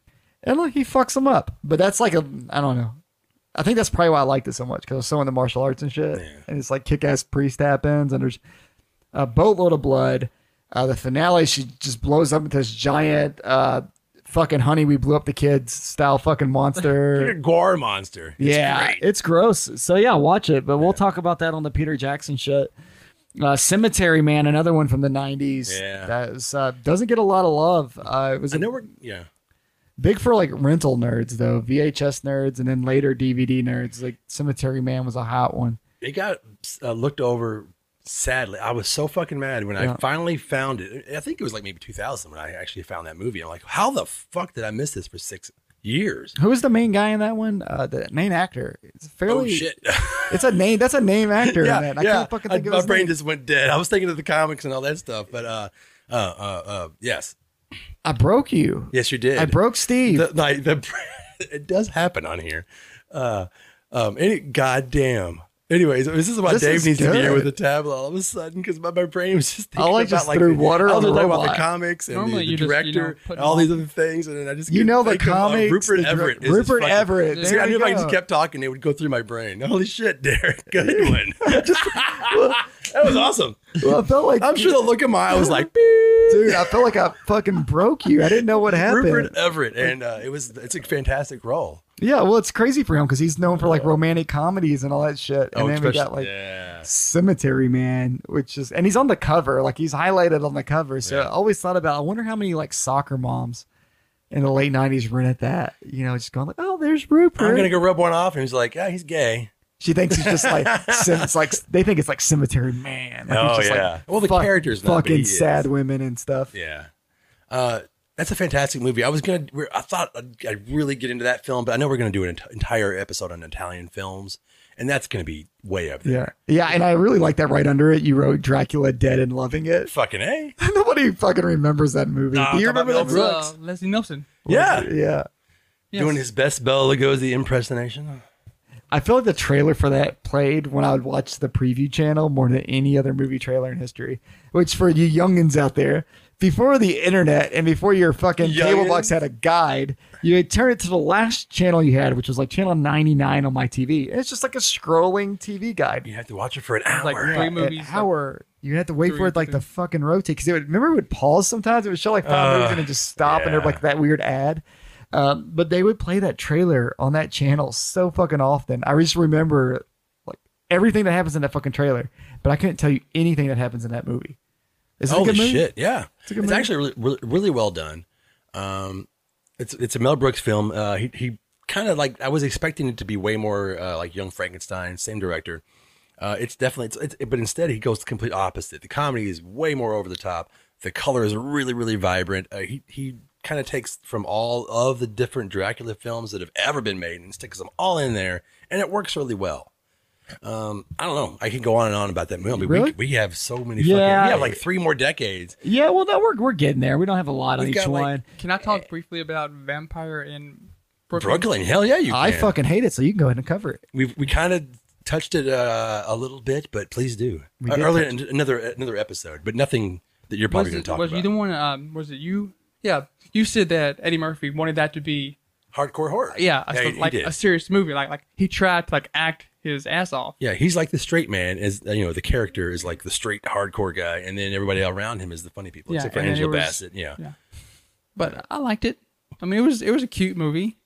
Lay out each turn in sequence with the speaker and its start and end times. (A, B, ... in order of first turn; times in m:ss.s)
0:00.4-0:03.0 A
0:03.5-0:08.4 A
0:06.1-0:06.4 B
0:09.1-0:17.4 A
0:17.1-0:19.0 B
0:18.4-0:22.7 A
0:23.4-0:28.8 A
0:25.7-0:26.1 B
0:28.5-0:29.3 B
0:30.0-0:35.8 A
0:36.0-0:46.3 B
0:46.4-0:49.6 A
0:49.3-0:50.5 B
0:50.3-0:53.1 A
0:51.4-0:57.4 B
0:58.0-1:00.3 A
0:58.9-1:26.9 B
1:06.4-1:07.5 A
1:09.8-1:11.6 A
1:12.1-1:13.8 C
1:14.7-1:18.2 A
1:17.3-1:17.6 C
1:20.8-1:25.7 A
1:26.3-1:29.9 A
1:28.5-1:31.8 B
1:32.0-1:36.3 A
1:35.5-1:36.9 B
1:36.8-1:43.6 A
1:44.3-1:47.7 A
1:47.4-1:49.5 B
1:49.8-1:56.5 A
1:50.1-1:51.3 B
1:53.3-1:55.7 B
1:56.5-1:56.9 B
1:57.5-2:06.3 B
2:06.0-2:09.9 A
2:09.9-2:10.5 B
2:10.6-2:13.5 A
2:12.3-2:13.4 B
2:13.0-2:14.3 C
2:14.4-2:15.3 A
2:14.5-2:14.9 B
2:15.9-2:16.2 C
2:15.9-2:18.2 B
2:18.9-2:36.1 A
2:28.4-2:29.2 B
2:36.0-2:37.5 B
2:36.9-2:38.1 C
2:37.2-2:54.4 A
2:39.0-2:39.6 C
2:42.2-2:43.8 B
2:55.0-2:55.7 A
2:55.1-2:59.1 B
2:56.2-2:56.7 A
2:59.6-3:05.6 B
3:06.2-3:19.7 B
3:20.4-3:25.6 B
3:22.5-3:23.0 A
3:23.8-3:24.6 A
3:25.6-3:28.2 A
3:27.6-3:28.1 B
3:28.4-3:31.5 C
3:31.2-3:32.5 B
3:32.1-3:33.8 A
3:33.9-3:41.3 B
3:37.6-3:38.1 A
3:40.5-3:45.4 C
3:45.7-3:47.3 B
3:46.3-3:50.3 C
3:50.4-3:57.2 B
3:55.9-3:57.4 C
3:58.2-4:00.8 C